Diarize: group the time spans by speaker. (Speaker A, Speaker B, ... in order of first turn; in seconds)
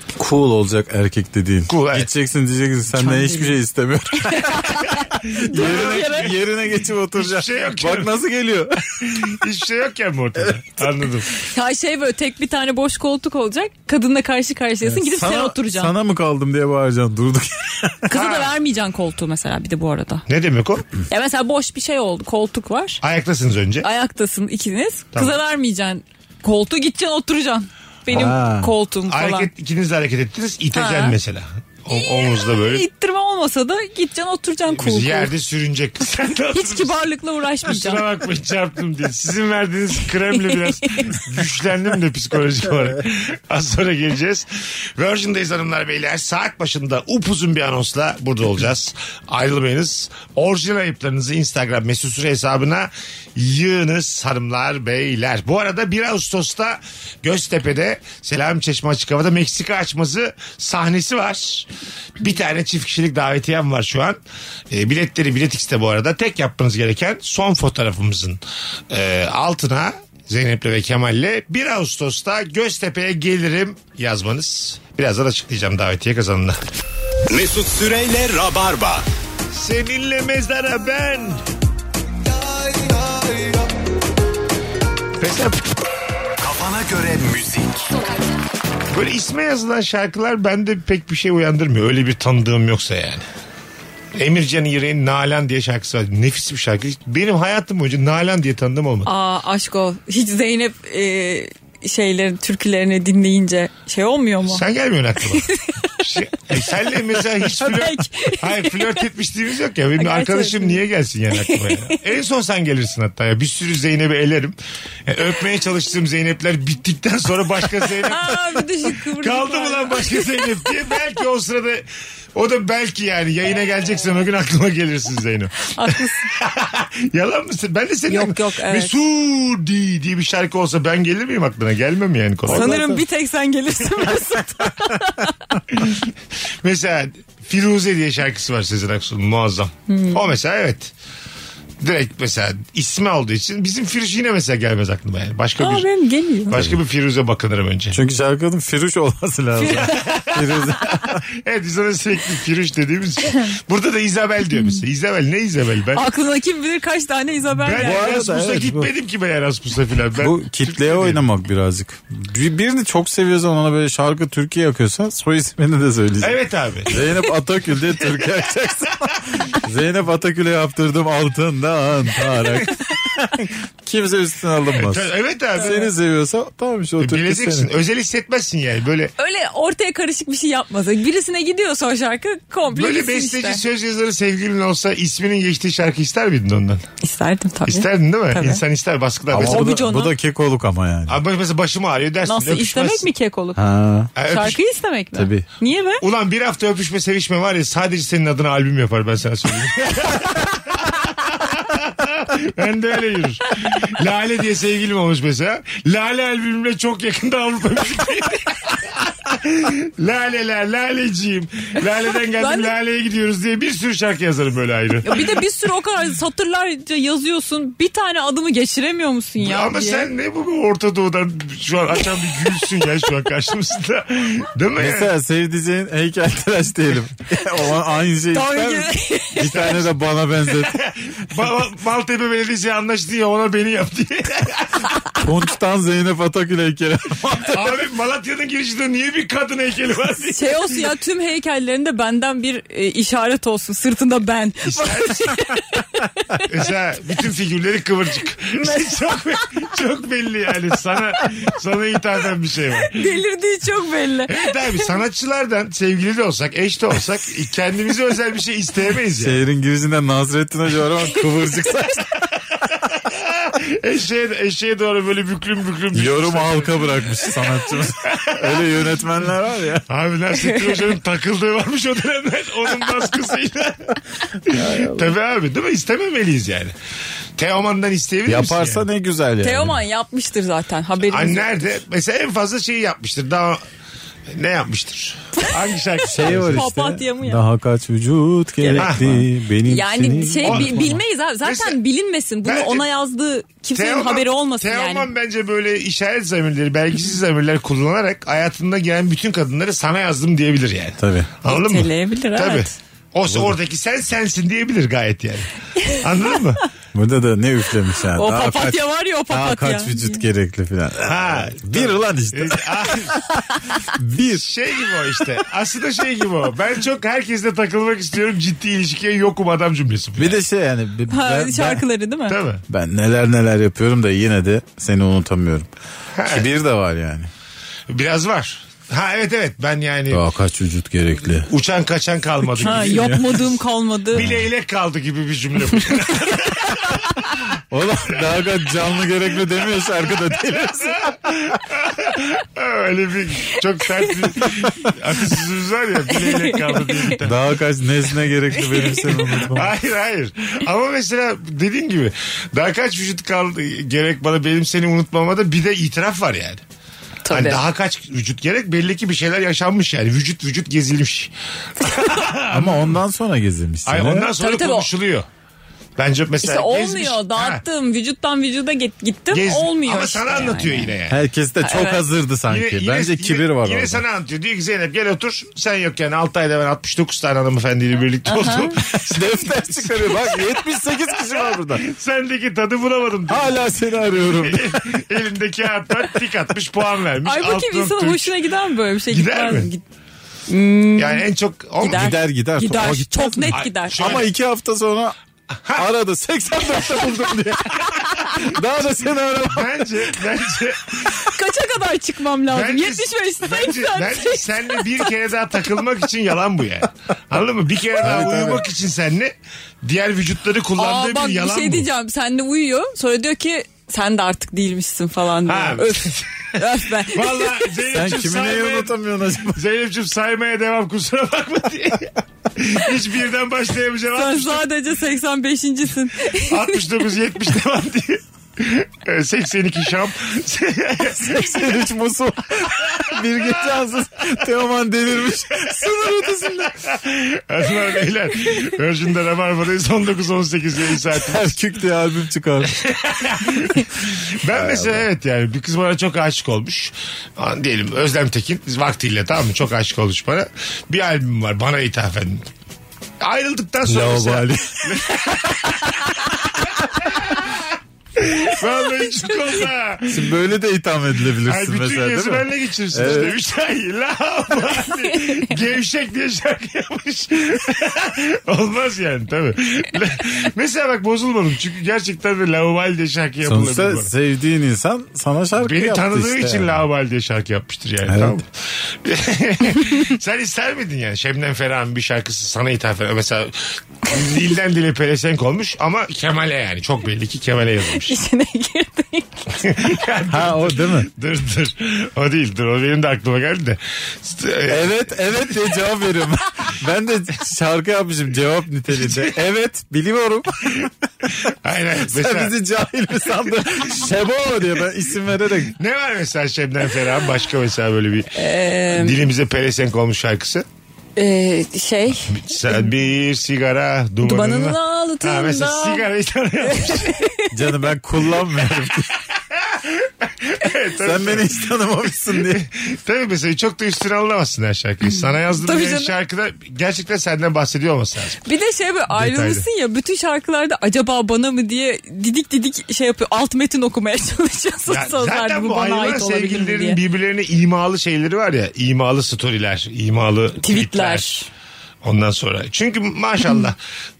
Speaker A: 0.2-9.3, 10.4-10.8, 14.8-18.1, 28.1-28.7, 132.5-133.0, 147.9-151.2, 157.8-158.9, 160.2-177.7, 189.3-191.2, 193.6-194.1, 195.1-195.4, 224.8-230.8, 235.2-237.6, 259.1-262.1, 265.9-269.8, 274.5-275.1, 278.2-279.8, 286.1-291.0, 301.0-301.3, 303.3-303.6, 306.9-314.5, 320.2-321.8, 322.7-325.7, 326.3-327.3, 330.1-331.5, 332.6-333.2, 334.1-334.4, 337.7-341.6, 347.2-349.7, 362.5-364.3, 371.1-374.0, 378.8-381.8, 383.3-385.0, 391.8-395.1, 395.8-400.0, 408.0-408.6, 417.9-419.6, 431.1-436.7, 441.2-442.8, 444.5-445.1, 453.8-455.0, 460.1-463.4, 473.4-476.8, 478.1-478.4, 490.3-491.1, 494.7-500.9, 502.0-505.8, 517.5-519.1, 521.0-522.6
Speaker B: 1.7-2.1, 5.2-6.4, 7.1-8.2, 9.0-11.3, 18.1-18.5, 20.3-20.8, 23.0-23.9, 29.1-32.9, 34.7-37.0, 37.6-61.7, 62.2-64.2, 64.7-68.4, 68.9-76.6, 79.5-81.4, 85.2-85.7, 88.9-93.2, 94.1-99.1, 104.4-114.5, 115.1-132.9, 135.7-136.1, 136.6-140.9, 141.8-145.9, 146.5-148.0, 149.7-156.0, 157.6-161.2, 166.2-167.0, 174.7-175.9, 177.0-179.1, 182.7-186.8, 187.7-189.7, 191.1-193.1, 194.2-194.6, 196.0-215.4, 219.4-225.1, 229.5-229.9, 230.5-235.0, 237.3-240.8, 244.6-245.4, 246.4-253.1, 254.3-259.4, 262.5-267.1, 268.0-268.8, 269.9-276.7, 277.4-278.9, 281.1-283.6, 284.3-286.7, 288.8-289.2, 290.4-291.8, 292.4-292.8, 293.7-306.6, 311.0-313.2, 314.3-320.4, 322.3-322.6, 326.1-326.5, 327.9-330.2, 331.4-333.5, 334.1-337.1, 340.1-347.4, 349.5-356.6, 357.3-363.0, 363.9-365.2, 366.0-367.6, 369.3-371.2, 372.5-388.4, 389.1-389.7, 390.9-392.1, 393.5-394.3, 395.6-395.9, 399.4-401.2, 402.5-411.9, 415.4-418.9, 419.5-424.6, 426.4-431.6, 432.9-433.8, 435.5-441.6, 442.6-452.5, 453.2-460.3, 461.4-474.1, 475.6-488.2, 489.6-495.4, 498.9-499.4, 500.8-502.5, 505.7-510.6, 512.3-517.2, 519.5-528.4, 529.1-529.6, 534.9-541.4, 542.0-543.8
Speaker C: 2.9-3.6, 4.2-6.3, 11.3-15.9, 18.1-20.2, 21.1-23.0, 23.8-29.5, 30.7-31.1, 31.9-35.3, 36.5-38.0, 40.3-41.2, 99.0-104.6, 105.3-106.1, 107.1-109.0, 110.0-110.8, 111.3-112.0, 117.8-120.8, 125.6-126.3, 128.1-129.0, 132.5-135.6, 139.9-140.2, 145.6-146.6, 149.6-150.1, 155.9-158.1, 179.2-183.6, 187.0-188.6, 189.4-190.1, 192.3-193.6, 194.2-196.0, 212.3-212.7, 215.0-220.1, 228.3-229.5, 240.3-246.5, 248.6-249.1, 252.8-254.9, 270.3-270.9, 279.4-281.8, 286.2-287.4, 288.6-289.0, 289.6-295.1, 301.5-302.7, 305.8-306.4, 308.1-310.2, 321.1-322.4, 332.6-334.2, 346.1-347.2, 348.5-349.4, 357.2-357.6, 364.4-364.9, 366.4-370.9, 371.6-372.0, 378.3-378.7, 387.2-389.8, 390.5-391.2, 391.8-394.1, 401.1-405.1, 410.8-417.7, 424.1-426.8, 465.1-465.5, 487.9-489.8, 508.3-509.2, 511.1-512.8, 514.2-516.1, 516.6-517.5, 525.5-526.1, 528.4-537.0, 540.6-541.5
Speaker D: 77.3-79.0, 82.6-83.5, 86.4-87.9